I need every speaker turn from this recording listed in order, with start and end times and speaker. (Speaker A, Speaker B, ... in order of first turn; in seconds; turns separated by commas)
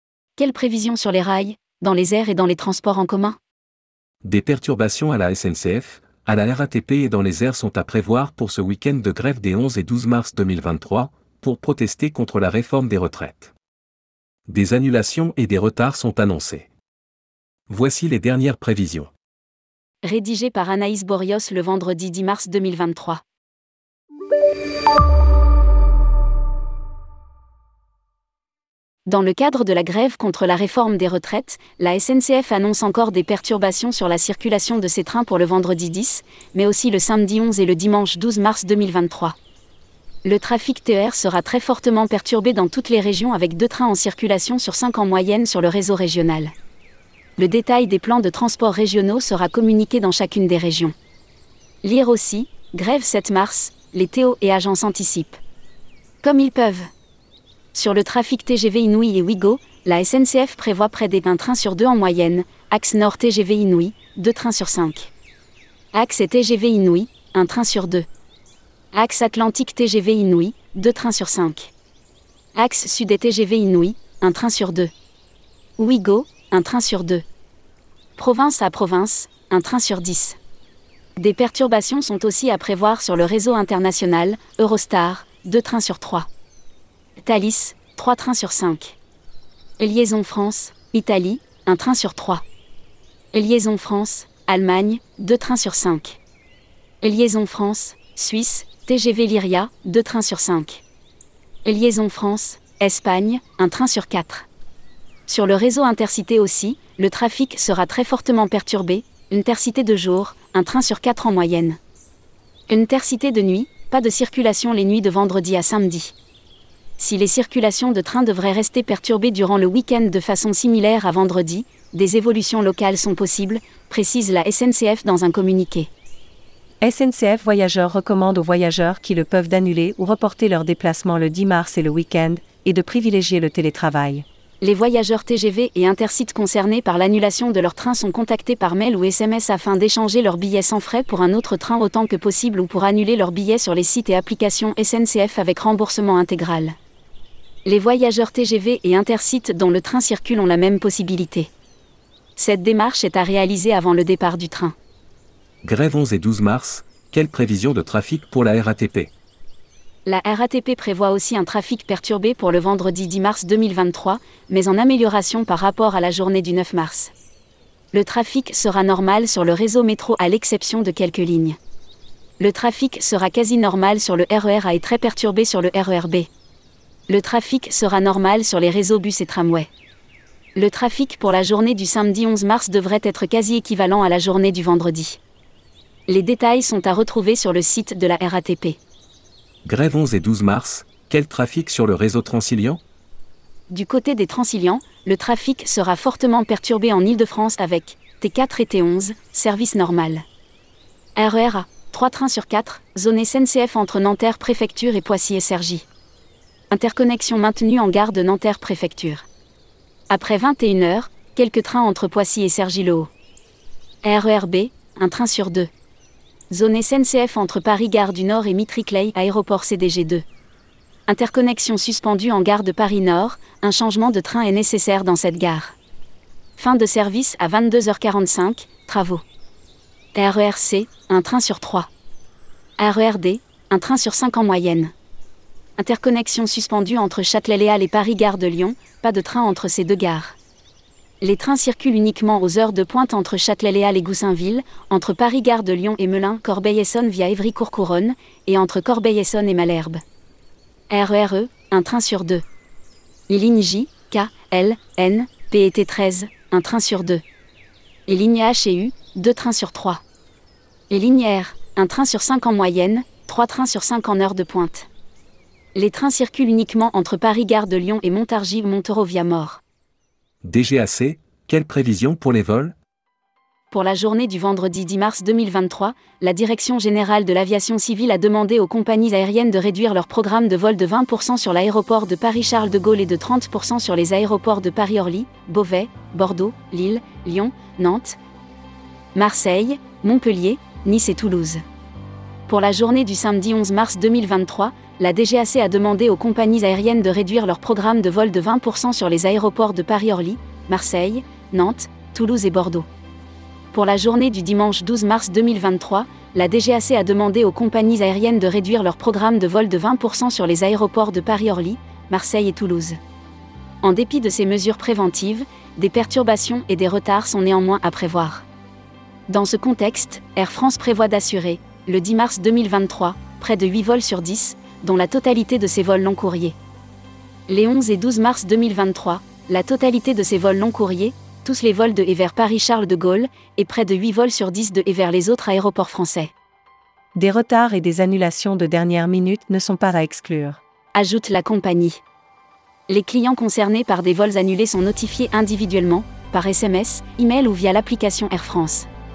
Speaker A: 0.4-3.4, Speaker B: 4.2-13.5, Speaker B: 14.5-16.7, Speaker B: 17.7-19.1, Speaker A: 20.0-23.2, Speaker A: 29.1-39.4, Speaker A: 40.2-46.5, Speaker A: 47.4-50.9, Speaker A: 51.8-55.4, Speaker A: 56.2-56.9, Speaker A: 57.7-65.1, Speaker A: 65.9-68.0, Speaker A: 68.9-71.7, Speaker A: 72.5-74.9, Speaker A: 75.8-77.2, Speaker A: 78.2-80.4, Speaker A: 81.2-86.3, Speaker A: 87.2-89.0, Speaker A: 89.8-92.4, Speaker A: 93.3-96.2, Speaker A: 97.0-100.8, Speaker A: 101.6-104.5, Speaker A: 105.3-111.8, Speaker A: 112.7-116.1, Speaker A: 117.0-125.9, Speaker C: 126.8-134.2, Speaker A: 134.6-146.8, Speaker A: 147.6-151.5, Speaker A: 152.3-154.8, Speaker B: 155.6-159.1, Speaker A: 160.1-167.1, Speaker A: 167.9-171.6, Speaker A: 172.4-176.3, Speaker A: 177.1-179.7, Speaker A: 180.5-185.2, Speaker A: 186.1-188.8, Speaker B: 189.6-192.8, Speaker A: 193.7-200.2, Speaker A: 201.2-205.9, Speaker A: 206.7-209.3, Speaker A: 210.1-213.1, Speaker A: 214.0-215.7, Speaker A: 216.5-220.2, Speaker A: 221.1-225.8, Speaker A: 226.6-229.2, Speaker A: 230.1-231.9, Speaker A: 232.8-234.9, Speaker A: 235.8-240.4, Speaker A: 241.2-250.0, Speaker A: 250.9-252.4, Speaker A: 253.3-257.2, Speaker A: 258.1-260.0, Speaker A: 260.9-264.9, Speaker A: 265.7-269.6, Speaker B: 270.4-272.7, Speaker A: 273.7-288.2, Speaker A: 289.1-291.6, Speaker A: 292.5-302.9, Speaker A: 303.7-313.0, Speaker A: 313.8-318.4, Speaker A: 319.3-326.6, Speaker A: 327.5-336.3, Speaker C: 337.1-340.6, Speaker A: 340.9-342.0, Speaker A: 342.9-348.9